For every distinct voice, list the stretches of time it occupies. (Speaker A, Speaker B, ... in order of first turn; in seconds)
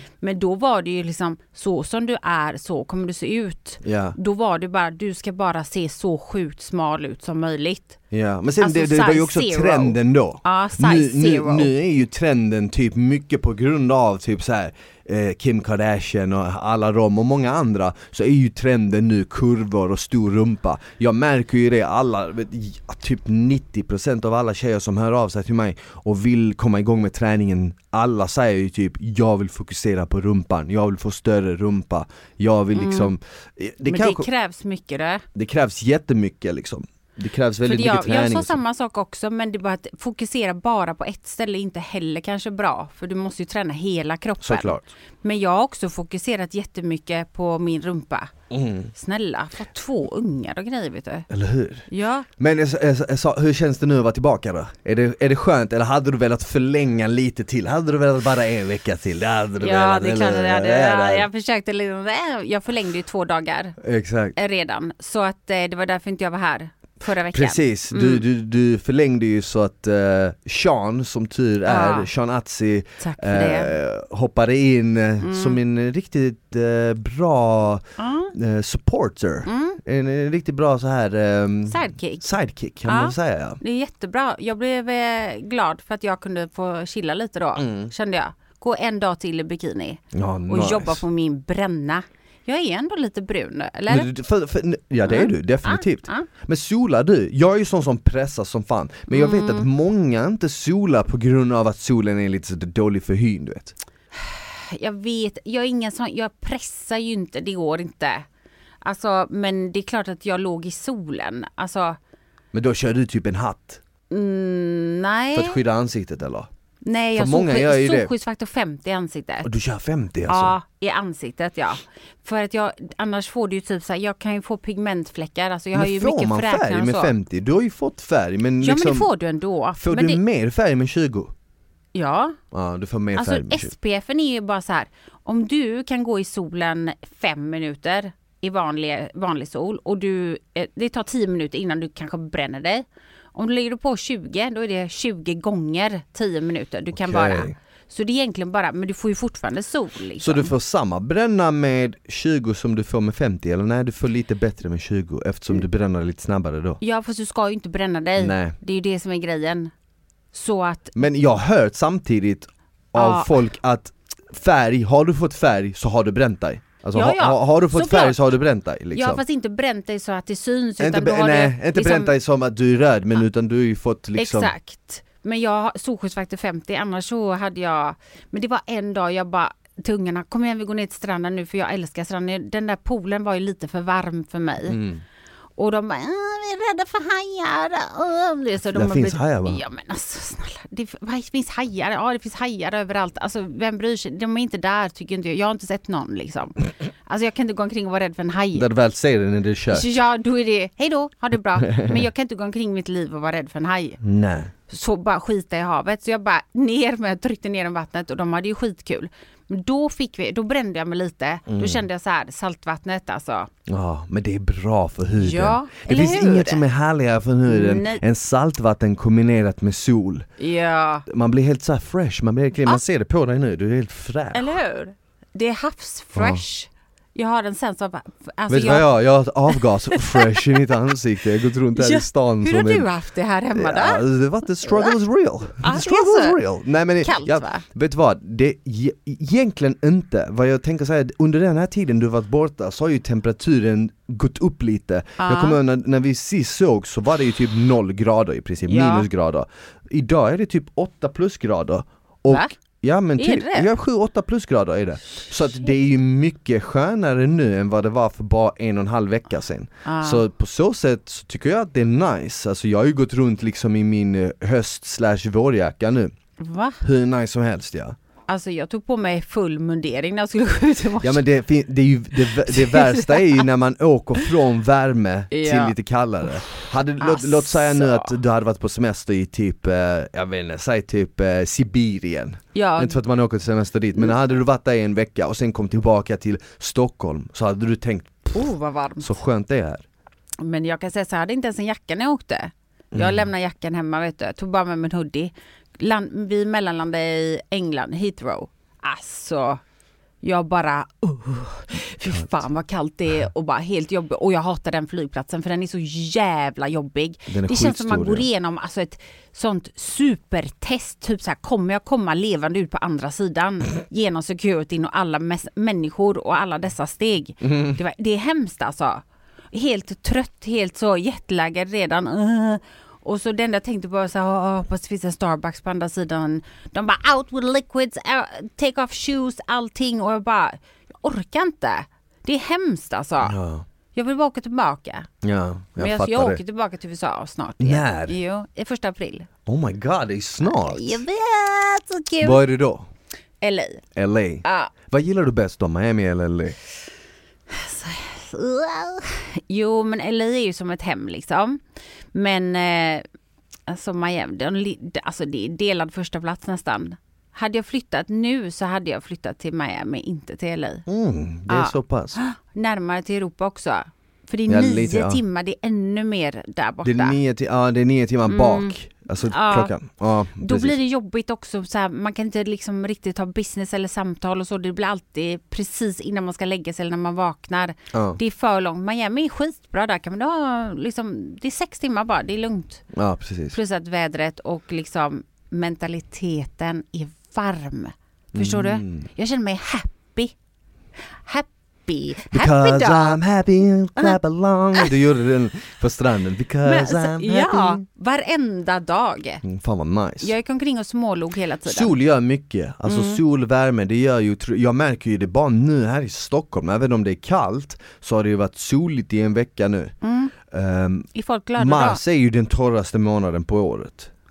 Speaker A: 0.2-8.0, 8.6-11.7, 32.7-33.1, 33.9-35.2, 37.6-48.3, 48.9-51.3, 51.9-52.3, 59.6-63.8, 64.3-68.2, 71.7-72.1, 73.0-73.7, 75.2-75.6, 78.0-78.3, 79.4-79.8, 81.7-82.3, 82.8-94.1, 95.0-96.3, 99.1-99.7, 104.1-108.3, 108.8-112.0, 114.1-115.6, 116.8-119.5, 120.3-127.1, 128.6-130.2, 131.9-132.4, 133.1-150.5, 156.8-159.7, 160.3-160.9, 162.9-163.5, 166.9-168.2, 168.9-172.1, 174.2-184.8, 185.6-198.7, 199.7-204.0, 204.7-213.5, 215.2-216.6, 217.5-218.0, 220.4-221.0, 224.3-228.9, 229.5-230.6, 231.8-234.0, 234.7-234.9, 235.6-236.4, 237.0-237.6, 245.2-245.6, 248.7-249.1, 253.2-253.7, 259.8-260.2, 266.4-266.8, 268.3-271.2, 272.1-273.4, 275.3-275.7, 277.0-278.1, 282.5-283.0, 288.3-289.1, 290.4-299.6, 300.2-333.4, 333.9-335.1, 335.8-339.3, 340.4-342.4, 343.4-343.8, 344.4-344.7, 347.5-353.0, 353.7-360.8, 361.5-367.2, 368.3-369.7, 370.4-382.8, 383.5-390.3, 391.1-393.2, 396.6-399.4, 400.2-401.9, 402.9-403.2, 410.0-410.3, 411.1-412.0
Speaker B: 3.8-4.2, 8.1-34.3, 35.3-38.6, 44.4-44.9, 48.5-48.9, 51.3-51.9, 52.4-61.3, 63.8-64.3, 67.3-83.6, 87.6-87.9, 90.1-91.0, 93.9-103.8, 112.5-113.8, 115.3-116.5, 117.2-118.1, 119.4-120.5, 125.7-129.1, 129.8-131.3, 132.5-133.7, 146.9-147.5, 150.2-156.8, 158.2-158.5, 160.9-169.2, 170.8-174.5, 184.7-185.0, 188.7-189.6, 198.5-199.9, 201.6-202.0, 204.0-204.5, 211.5-211.8, 213.7-220.3, 221.1-224.5, 226.1-226.4, 228.5-232.9, 233.5-266.1, 266.8-268.0, 271.0-289.8, 292.9-293.3, 307.3-308.3, 317.4-317.8, 333.2-333.6, 335.2-336.4, 337.6-338.1, 339.4-341.0, 342.2-342.9, 343.9-346.6, 360.9-362.2, 364.5-365.2, 366.8-370.8, 377.9-378.2, 382.9-383.6, 388.3-389.1, 392.3-397.8, 399.4-400.3, 401.6-409.9, 410.5-414.1